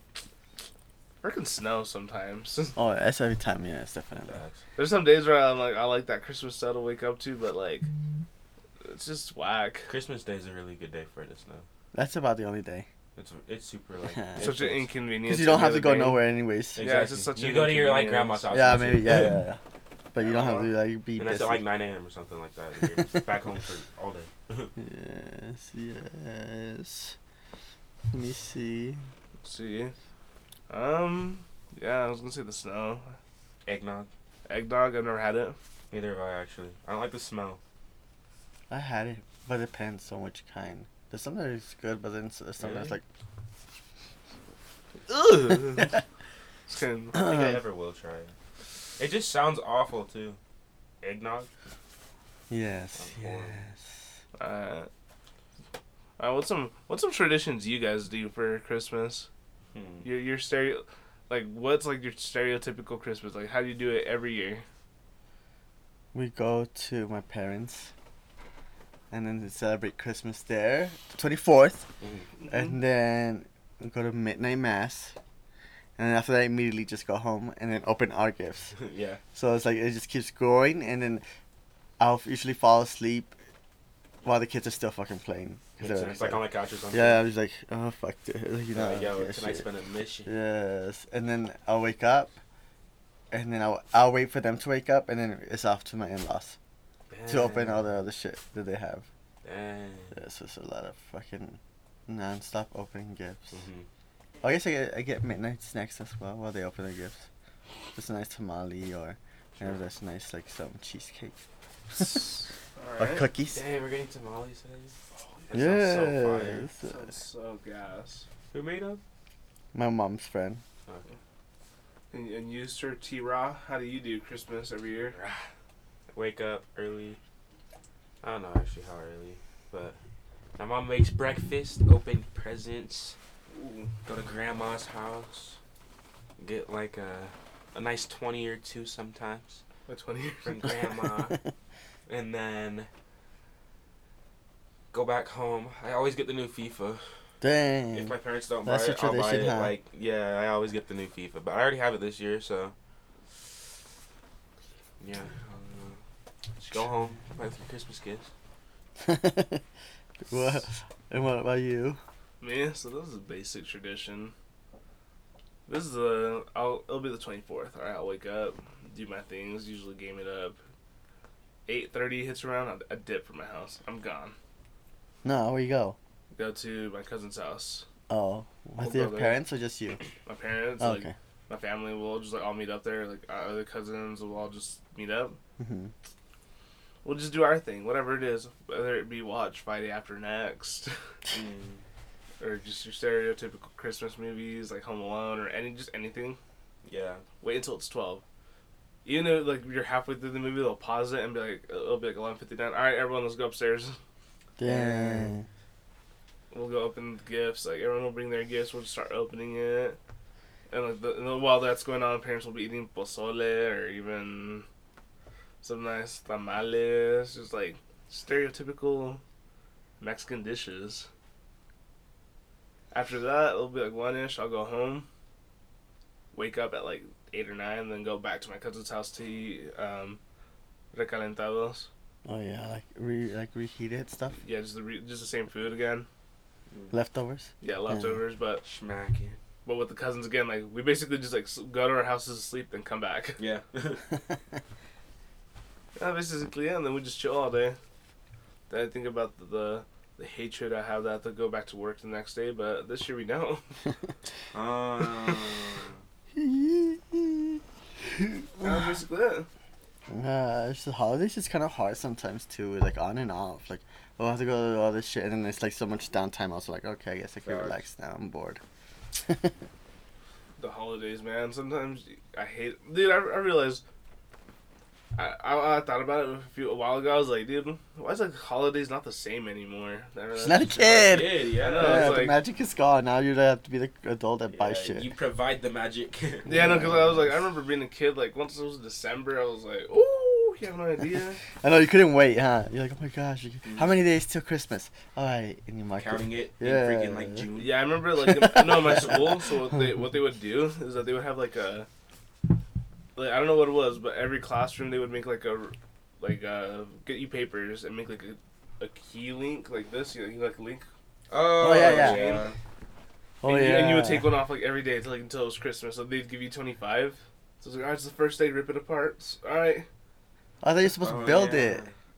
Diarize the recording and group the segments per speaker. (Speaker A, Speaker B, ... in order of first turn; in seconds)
Speaker A: 1.2-2.8, 4.8-7.9, 8.8-9.9, 14.4-18.5, 20.2-20.7, 29.4-29.9, 30.7-33.2, 34.5-35.6, 45.1-46.0, 46.7-47.5, 54.4-54.9, 56.2-59.3, 60.0-64.6, 72.4-72.8, 112.8-113.3, 115.2-116.0, 116.8-118.3, 122.1-125.2, 133.5-133.9, 139.9-140.6, 162.4-164.3, 165.7-170.6, 171.7-174.3, 176.3-177.9, 178.8-179.4, 180.3-185.4, 187.0-190.9, 192.4-196.4, 197.4-198.2, 199.1-204.0, 204.7-205.3, 206.5-210.0, 210.7-214.7, 215.6-219.2, 220.0-221.1, 222.9-225.1, 226.3-230.2, 230.9-231.9, 234.4-236.1, 237.6-238.6, 239.7-243.4, 246.0-247.8, 248.7-253.8, 258.6-259.5, 270.6-273.8, 275.2-282.4, 286.5-291.4, 297.6-301.9, 303.2-310.9, 311.6-312.5, 313.4-319.9, 321.2-321.6
Speaker B: 2.8-4.4, 11.9-12.9, 14.1-14.5, 15.2-16.8, 18.5-19.6, 20.1-21.6, 24.8-27.2, 28.1-29.0, 38.7-43.0, 52.5-54.0, 66.1-67.9, 69.1-71.9, 72.5-75.2, 76.0-78.7, 79.3-81.2, 82.0-83.3, 84.2-89.7, 90.3-92.3, 93.3-96.6, 97.3-99.1, 100.1-103.6, 104.4-107.3, 108.0-111.4, 112.0-112.2, 113.0-113.6, 115.5-117.0, 119.7-120.6, 147.4-149.8, 159.0-159.6, 160.2-162.0, 175.2-176.0, 178.1-180.0, 180.8-181.1, 185.6-185.9, 204.6-205.5, 232.2-234.3, 236.9-238.2, 256.3-258.8, 260.1-268.6, 269.2-269.5, 280.4-285.1, 286.5-287.4, 291.6-297.5, 298.3-299.2, 311.6-312.4, 313.4-314.3, 320.6-321.9
Speaker C: 4.3-4.6, 9.9-11.7, 13.2-14.9, 16.8-19.5, 21.2-24.7, 33.6-34.1, 35.9-37.6, 42.6-43.0, 47.1-48.4, 49.0-50.4, 51.0-51.5, 53.0-53.6, 59.7-60.1, 72.0-72.3, 78.8-79.2, 85.8-87.2, 88.7-90.3, 97.1-97.8, 99.4-100.2, 103.5-103.9, 113.5-115.0, 115.5-116.7, 118.5-119.0, 125.1-125.5, 126.1-127.2, 128.2-130.0, 130.6-133.2, 134.1-135.6, 136.4-139.6, 140.4-141.4, 142.1-142.9, 144.9-147.0, 147.9-152.7, 155.0-156.0, 156.6-158.3, 191.3-191.8, 196.8-197.2, 238.6-239.4, 243.4-244.0, 254.5-256.0, 267.4-267.8, 280.8-282.2, 284.5-286.8, 293.6-294.0, 296.0-297.9, 311.3-312.6, 321.0-321.9